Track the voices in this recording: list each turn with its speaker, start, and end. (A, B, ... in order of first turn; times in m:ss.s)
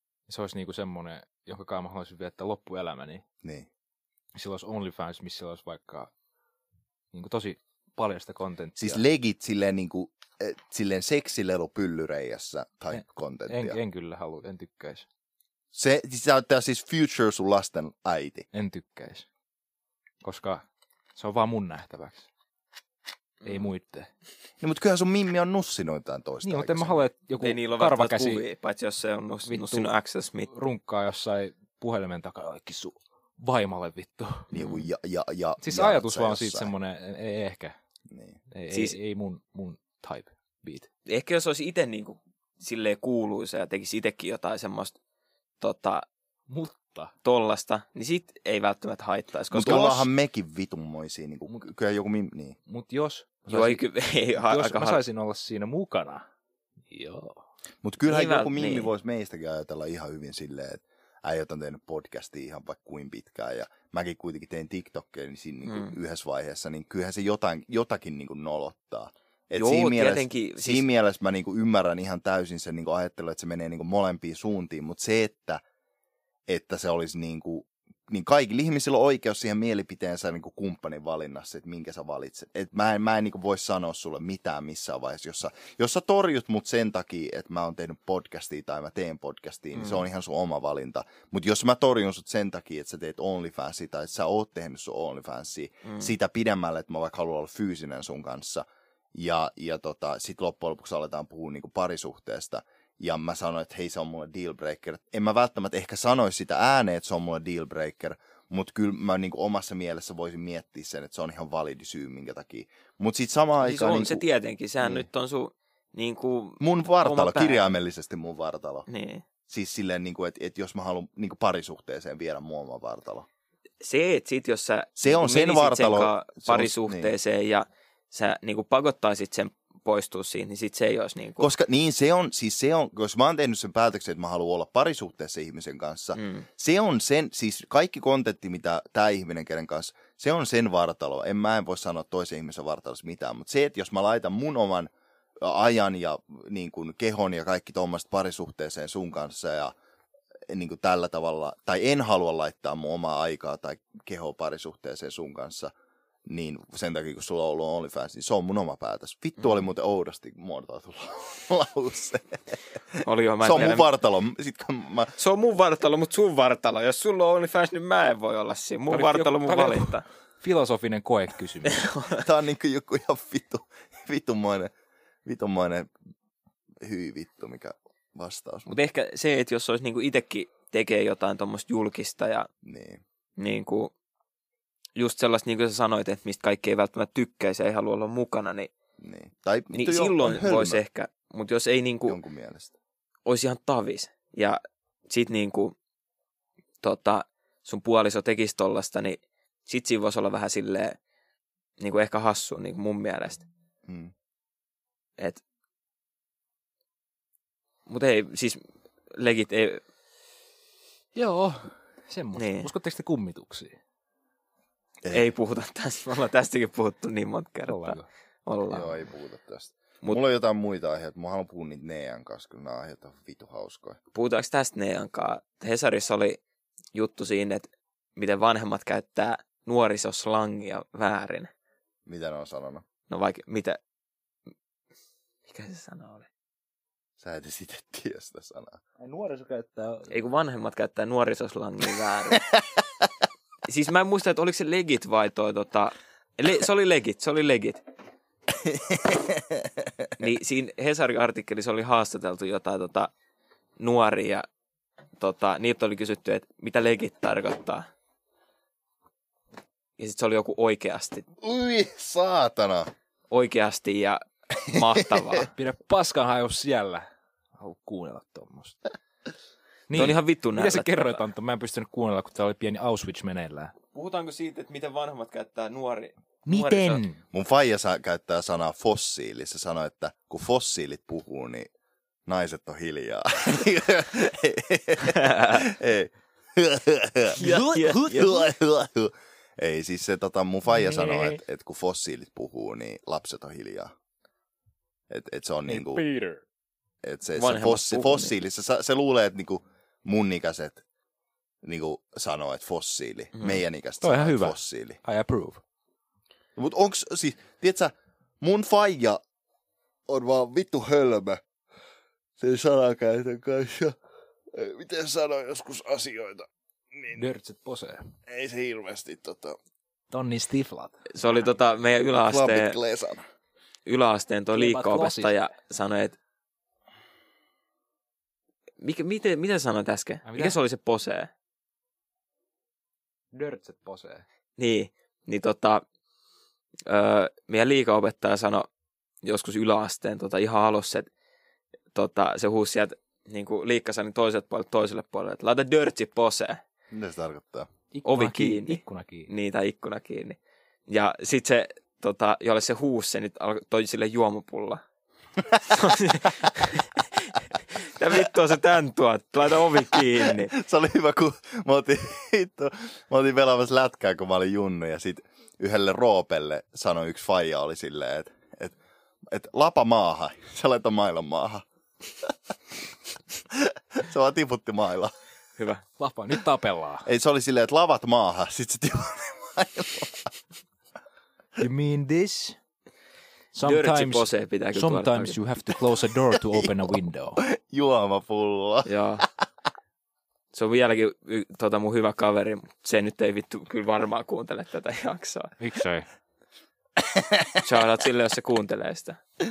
0:00.3-0:03.2 A
0:03.4-0:03.7 B
0:04.3-0:06.1 A
0:07.1-0:09.0 A
0:08.8-0:13.8 B
0:12.9-0:15.1 A
0:15.7-0:18.5 B
0:18.5-0:19.2 A
0:20.2-0:20.6 A
0:21.2-0:22.3 A
0:23.4-0:24.1 A
0:24.6-0:27.0 B
0:26.4-0:28.4 A
0:27.4-0:30.5 C
0:29.4-0:29.9 A
0:30.5-0:34.5 A
0:34.5-0:36.7 B
0:34.5-0:34.9 C
0:35.6-0:37.8 A
0:38.1-0:38.4 B
0:38.5-0:40.9 A
0:38.7-0:39.0 C
0:41.0-0:45.0 C
0:45.6-0:46.1 C
0:46.5-0:47.1 A
0:47.2-0:50.1 C
0:49.5-0:52.6 B
0:52.7-0:53.8 A
0:53.5-0:55.0 C
0:54.3-0:56.2 A
0:56.9-0:57.4 A
0:57.8-1:15.6 B
0:58.0-0:58.9 C
1:05.6-1:05.9 C
1:09.6-1:10.9 C
1:16.5-1:54.2 B
1:29.7-1:30.0 C
1:35.8-1:36.1 C
1:53.6-1:57.7 C
1:54.8-1:55.1 B
1:56.6-1:58.9 B
1:58.9-1:59.2 C
1:59.5-2:03.3 B
2:03.8-2:11.5 C
2:05.0-2:07.1 B
2:11.4-2:29.7 B
2:16.2-2:16.4 C
2:30.5-2:35.7 B
2:36.3-2:45.1 B
2:43.0-2:43.9 C
2:45.2-2:50.0 C
2:48.9-2:51.9 A
2:51.6-2:52.2 C
2:52.1-2:54.7 B
2:55.2-2:55.9 B
2:56.8-2:58.7 B
2:58.7-3:02.5 C
3:02.6-3:03.0 B
3:03.4-3:03.9 C
3:05.0-3:08.7 C
3:09.0-3:10.8 B
3:09.7-3:12.2 C
3:12.0-3:12.7 B
3:13.2-3:15.7 C
3:16.8-3:21.0 C
3:21.8-3:23.4 C
3:23.9-3:24.1 B
3:27.9-3:28.6 C
3:29.1-3:29.8 C
3:31.1-3:33.8 A
3:32.4-3:32.7 C
3:35.0-3:35.3 B
3:35.1-3:39.0 C
3:37.7-3:38.1 A
3:38.7-3:44.0 B
3:44.1-3:46.4 C
3:46.9-3:51.5 C
3:52.1-3:52.8 B
3:53.1-3:53.8 C
3:55.5-3:56.3 C
3:57.2-3:58.8 B
3:59.0-4:00.2 A
4:00.1-4:02.4 C
4:03.6-4:07.8 C
4:08.6-4:10.1 B
4:10.2-4:13.1 C
4:13.8-4:14.4 C
4:15.2-4:17.9 C
4:20.0-4:21.2 C
4:21.4-4:22.9 B
4:23.3-4:25.5 C
4:24.7-4:25.0 B
4:25.5-4:28.8 A
4:29.9-4:33.7 A
4:29.9-4:31.2 C
4:33.9-4:37.0 C
4:36.5-4:37.2 A
4:37.3-4:41.7 B
4:42.2-4:47.4 B
4:45.2-4:45.5 C
4:47.4-4:48.3 C
4:47.4-4:48.5 A
4:48.1-4:53.9 B
4:50.7-4:51.4 A
4:55.1-4:56.0 B
4:55.7-4:56.4 A
4:57.0-5:00.8 B
4:57.4-4:58.3 C
5:01.6-5:05.0 B
5:03.3-5:03.6 C
5:04.0-5:05.6 A
5:06.6-5:09.2 B
5:10.1-5:11.4 B
5:12.4-5:14.0 B
5:14.5-5:17.2 B
5:17.1-5:18.1 A
5:18.3-5:19.6 B
5:20.1-5:21.0 A
5:21.1-5:22.8 C
5:22.2-5:23.2 B
5:23.8-5:26.2 C
5:24.5-5:25.4 A
5:28.8-5:31.3 C
5:30.2-5:30.6 A
5:33.3-5:34.2 A
5:34.6-5:35.8 C
5:36.8-5:38.7 C
5:39.2-5:41.1 C
5:41.9-5:46.6 C
5:46.9-5:47.7 B
5:47.9-5:49.3 A
5:48.0-5:54.8 C
5:55.6-6:00.5 C
5:59.9-6:08.7 B
6:09.3-6:11.6 B
6:13.5-6:15.1 B
6:15.6-6:15.8 C
6:16.0-6:17.1 A
6:17.0-6:20.3 B
6:21.6-6:22.6 A
6:23.5-6:27.4 A
6:23.6-6:25.4 C
6:27.4-6:28.9 B
6:28.8-6:29.2 C
6:30.5-6:35.5 C
6:35.6-6:36.1 A
6:37.2-6:37.6 B
6:37.6-6:39.2 C